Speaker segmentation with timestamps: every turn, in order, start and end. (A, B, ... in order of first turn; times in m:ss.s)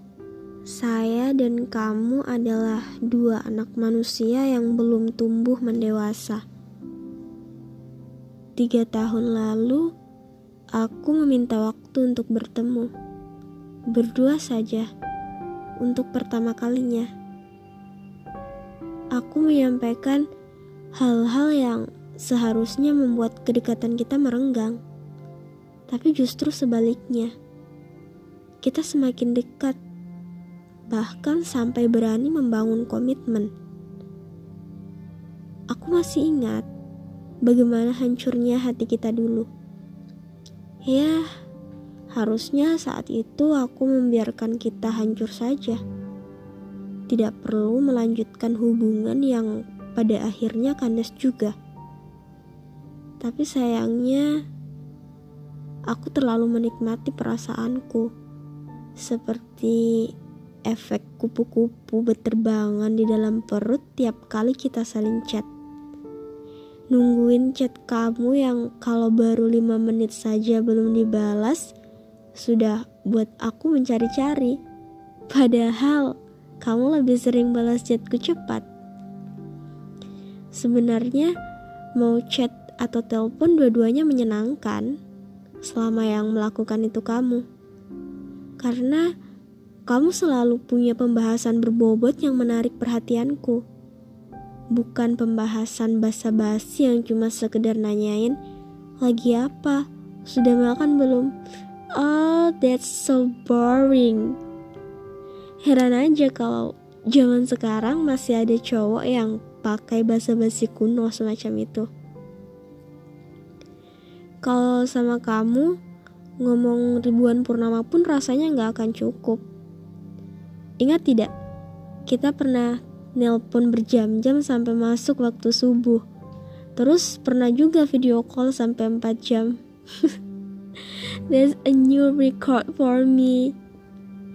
0:00.7-0:06.4 A
0:08.6-0:09.9 A
0:10.7-0:12.9 A
0:13.9-0:14.9 A
0:15.8-0:17.1 A
0:19.1-0:20.3 A
0:21.0-0:24.8 A
0:25.9-0:27.3 A
0:28.6-0:29.8 A
0:30.9-0:33.5 A
0:35.7-0:36.7 A
0:37.4-0:39.5 A
0:40.9-0:41.3 A
0:42.1-0:45.8 A
0:47.1-0:51.5 A
0:53.2-0:54.4 A
0:55.9-0:58.1 A
0:59.0-1:00.1 A
1:00.7-1:05.5 A
1:06.9-1:11.7 A
1:12.3-1:14.6 A
1:15.3-1:18.7 A
1:20.5-1:21.3 A
1:22.0-1:25.0 A
1:25.6-1:27.4 A
1:28.6-1:29.1 A
1:29.9-1:33.6 A
1:34.7-1:38.4 A
1:39.0-1:41.3 A
1:42.0-1:44.4 A
1:45.6-1:51.9 A
1:54.4-1:55.7 A
1:56.4-1:59.4 A
2:00.8-2:01.3 A
2:02.1-2:06.0 A
2:06.8-2:10.2 A
2:10.9-2:13.6 A